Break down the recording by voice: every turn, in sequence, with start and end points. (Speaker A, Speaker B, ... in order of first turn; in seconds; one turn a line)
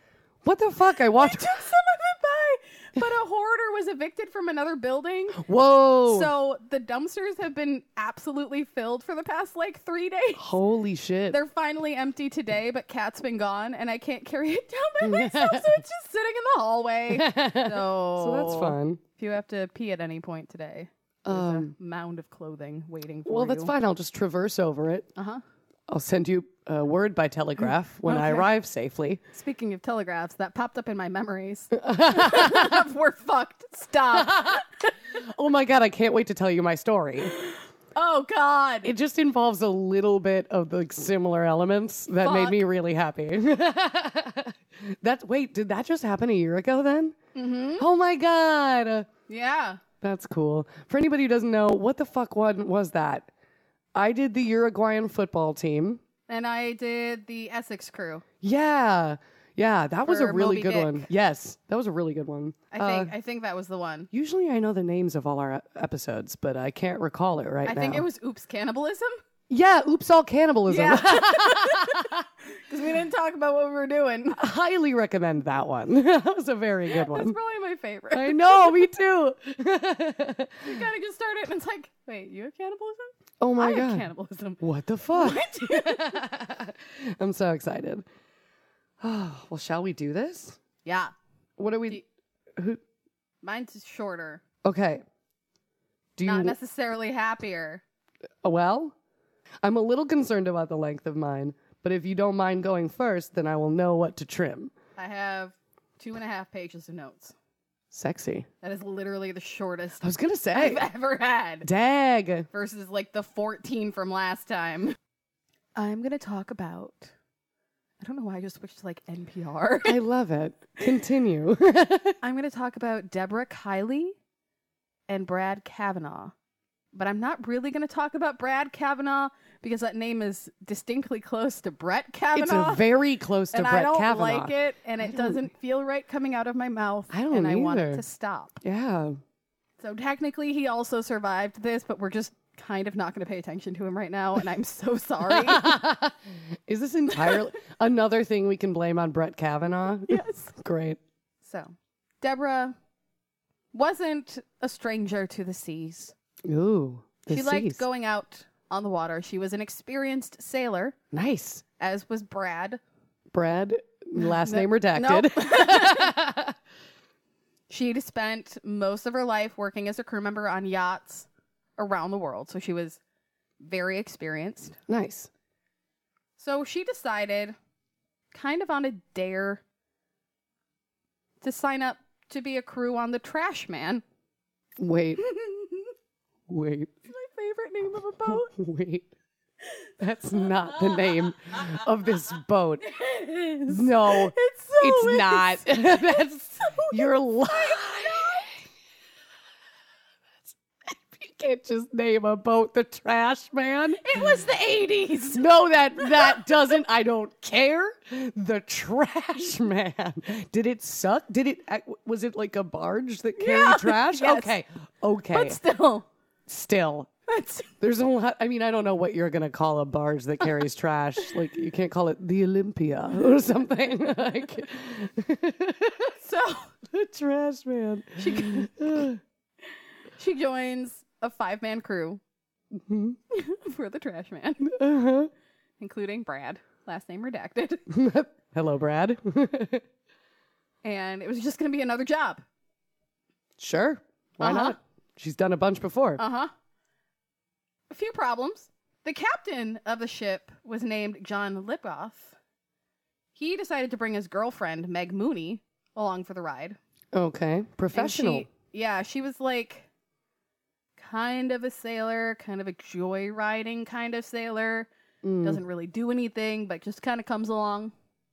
Speaker A: 0.4-1.6
Speaker B: 1.1-5.4
Speaker A: 5.3-6.3
Speaker B: 6.1-10.5
Speaker A: 10.4-11.4
Speaker B: 11.3-23.7
Speaker A: 15.0-15.8
Speaker A: 17.1-19.0
Speaker A: 21.3-21.7
Speaker A: 23.3-25.1
Speaker B: 25.2-25.4
Speaker A: 25.9-29.2
Speaker B: 28.1-28.5
Speaker B: 29.3-34.9
Speaker A: 31.7-32.9
Speaker A: 34.1-34.6
Speaker A: 35.2-37.3
Speaker B: 37.2-38.9
Speaker A: 38.8-47.1
Speaker B: 42.2-42.6
Speaker B: 47.4-47.9
Speaker A: 47.8-49.1
Speaker B: 49.3-49.8
Speaker A: 50.0-53.3
Speaker A: 54.0-56.0
Speaker B: 56.3-58.2
Speaker A: 58.4-63.1
Speaker B: 60.1-61.1
Speaker B: 62.7-64.1
Speaker A: 64.1-68.1
Speaker B: 67.7-69.2
Speaker A: 69.5-72.2
Speaker B: 70.7-74.4
Speaker A: 74.4-77.4
Speaker B: 76.9-78.9
Speaker A: 78.1-80.9
Speaker B: 80.6-84.6
Speaker A: 83.4-84.1
Speaker A: 84.6-88.0
Speaker B: 85.1-86.2
Speaker A: 89.0-90.6
Speaker B: 90.8-91.1
Speaker A: 91.6-92.0
Speaker A: 92.6-92.8
Speaker B: 93.4-94.4
Speaker A: 94.6-95.0
Speaker A: 96.2-96.6
Speaker B: 96.2-97.8
Speaker A: 98.4-98.9
Speaker A: 99.6-104.7
Speaker B: 105.0-107.3
Speaker A: 107.9-108.5
Speaker B: 108.6-111.7
Speaker A: 110.0-110.9
Speaker A: 111.6-112.5
Speaker B: 112.5-115.0
Speaker B: 115.8-117.1
Speaker B: 118.0-120.0
Speaker A: 119.9-122.2
Speaker B: 122.2-124.2
Speaker B: 125.1-126.3
Speaker B: 126.9-132.9
Speaker A: 132.3-135.4
Speaker B: 133.5-138.6
Speaker A: 137.1-138.0
Speaker A: 138.6-139.2
Speaker B: 139.8-145.7
Speaker A: 145.3-151.0
Speaker B: 147.1-147.4
Speaker B: 150.1-150.5
Speaker B: 151.4-152.8
Speaker B: 153.7-156.1
Speaker A: 156.5-157.8
Speaker B: 157.3-161.0
Speaker A: 161.1-161.6
Speaker B: 161.8-162.8
Speaker A: 163.3-166.5
Speaker B: 164.2-166.1
Speaker B: 167.7-173.0
Speaker B: 173.6-174.8
Speaker A: 174.9-175.3
Speaker B: 176.4-177.6
Speaker B: 178.3-179.6
Speaker B: 181.4-184.0
Speaker A: 184.8-185.2
Speaker B: 185.2-185.9
Speaker A: 186.5-186.9
Speaker B: 187.1-188.5
Speaker A: 188.3-189.1
Speaker A: 190.0-192.8
Speaker B: 190.6-191.3
Speaker B: 192.8-198.6
Speaker A: 193.7-198.6
Speaker A: 200.9-204.3
Speaker B: 204.0-205.4
Speaker A: 205.3-215.6
Speaker B: 206.0-206.7
Speaker B: 213.4-214.5
Speaker B: 215.3-216.1
Speaker A: 216.5-217.1
Speaker B: 217.3-217.7
Speaker A: 217.8-226.1
Speaker B: 226.2-226.7
Speaker A: 226.9-229.2
Speaker B: 228.2-228.7
Speaker B: 230.2-232.2
Speaker A: 232.7-233.2
Speaker B: 233.3-234.7
Speaker A: 234.6-235.3
Speaker B: 235.8-237.8
Speaker A: 237.9-239.8
Speaker B: 240.8-242.4
Speaker A: 243.6-246.2
Speaker B: 244.4-244.8
Speaker B: 246.2-246.5
Speaker B: 247.9-252.4
Speaker B: 253.3-256.8
Speaker A: 257.1-258.5
Speaker B: 257.9-259.9
Speaker B: 261.0-264.9
Speaker A: 265.2-265.6
Speaker B: 265.4-267.9